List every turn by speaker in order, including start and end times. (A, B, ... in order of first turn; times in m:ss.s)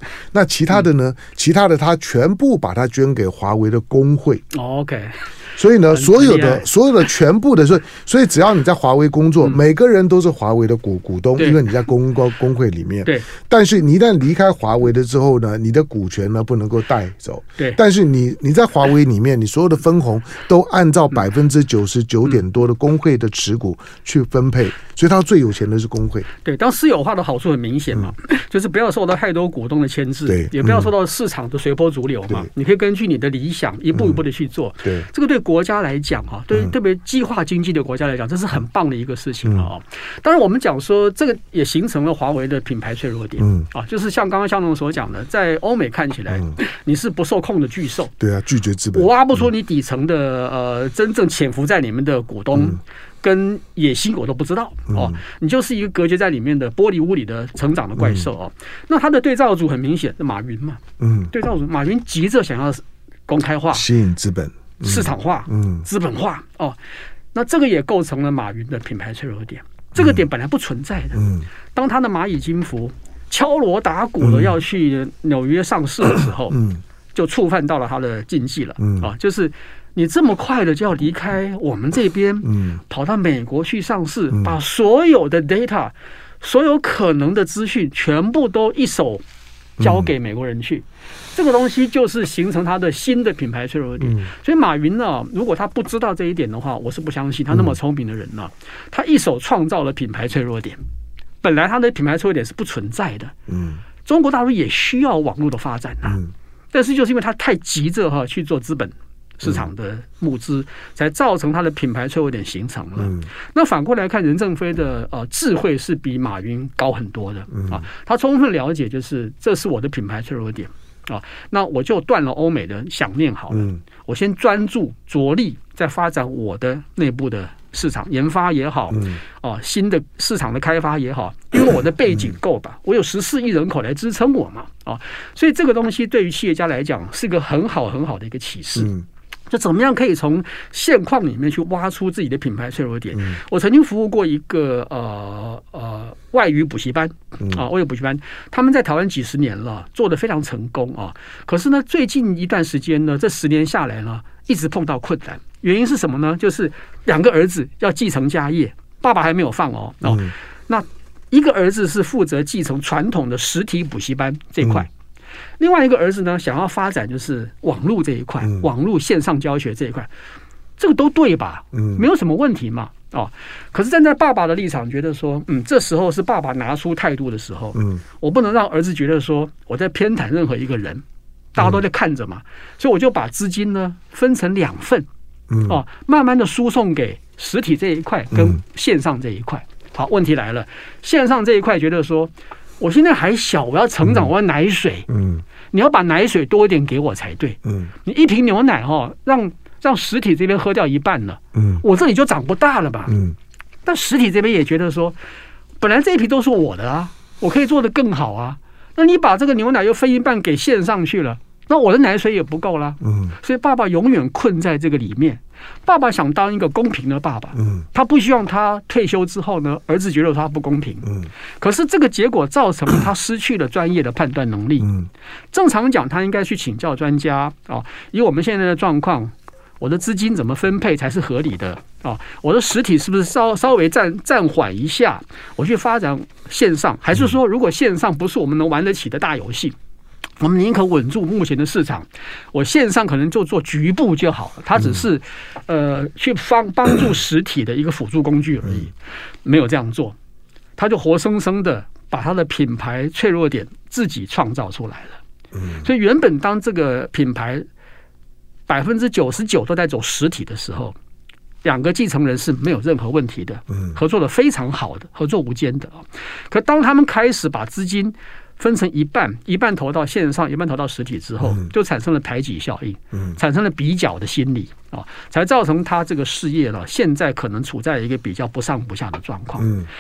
0:00.3-0:04.4 A
0:04.5-0:05.3 B
0:05.6-0:26.3 A
0:05.9-0:06.7 B
0:26.4-0:48.1 B
0:30.3-0:30.9 A
0:33.9-0:34.2 A
0:43.4-0:43.7 A
0:48.2-0:49.5 A
0:48.9-1:03.9 B
0:54.9-0:55.2 A
0:58.0-0:58.3 A
1:01.0-1:01.3 A
1:03.7-1:05.9 A
1:04.8-1:06.8 B
1:07.3-1:11.2 B
1:10.0-1:10.2 A
1:11.2-1:11.5 A
1:11.7-1:16.6 B
1:14.2-1:14.6 A
1:16.5-1:16.8 A
1:17.1-1:29.2 B
1:18.8-1:19.1 A
1:22.4-1:22.8 A
1:29.8-1:40.8 B
1:29.8-1:30.1 A
1:34.0-1:34.3 A
1:41.4-1:43.3 B
1:43.5-1:43.8 A
1:44.0-1:46.2 B
1:46.0-1:46.3 A
1:46.7-2:18.9 B
1:53.0-1:53.3 A
1:57.5-1:57.8 A
2:03.5-2:03.8 A
2:08.9-2:09.2 A
2:18.8-2:19.1 A
2:19.5-2:44.9 B
2:23.1-2:23.4 A
2:40.0-2:40.3 A
2:44.6-2:44.9 A
2:45.6-2:50.1 B
2:50.8-3:01.0 B
2:51.7-2:52.0 A
2:57.8-2:58.0 A
3:01.5-3:05.1 B
3:05.5-3:05.8 A
3:05.6-3:15.1 B
3:08.3-3:08.6 A
3:14.0-3:14.3 A
3:15.1-3:15.4 A
3:15.7-3:23.2 B
3:17.6-3:17.9 A
3:21.6-3:21.8 A
3:23.1-3:23.4 A
3:23.8-3:25.2 B
3:25.8-3:44.9 B
3:33.0-3:33.4 A
3:37.6-3:37.8 A
3:44.8-3:45.1 A
3:45.5-3:59.8 B
4:00.4-4:08.9 B
4:08.6-4:08.9 A
4:09.4-4:10.2 B
4:10.8-4:15.2 B
4:15.5-4:15.9 A
4:15.8-4:17.7 B
4:18.7-4:21.0 B
4:21.6-4:39.7 B
4:33.1-4:33.4 A
4:39.6-4:39.9 A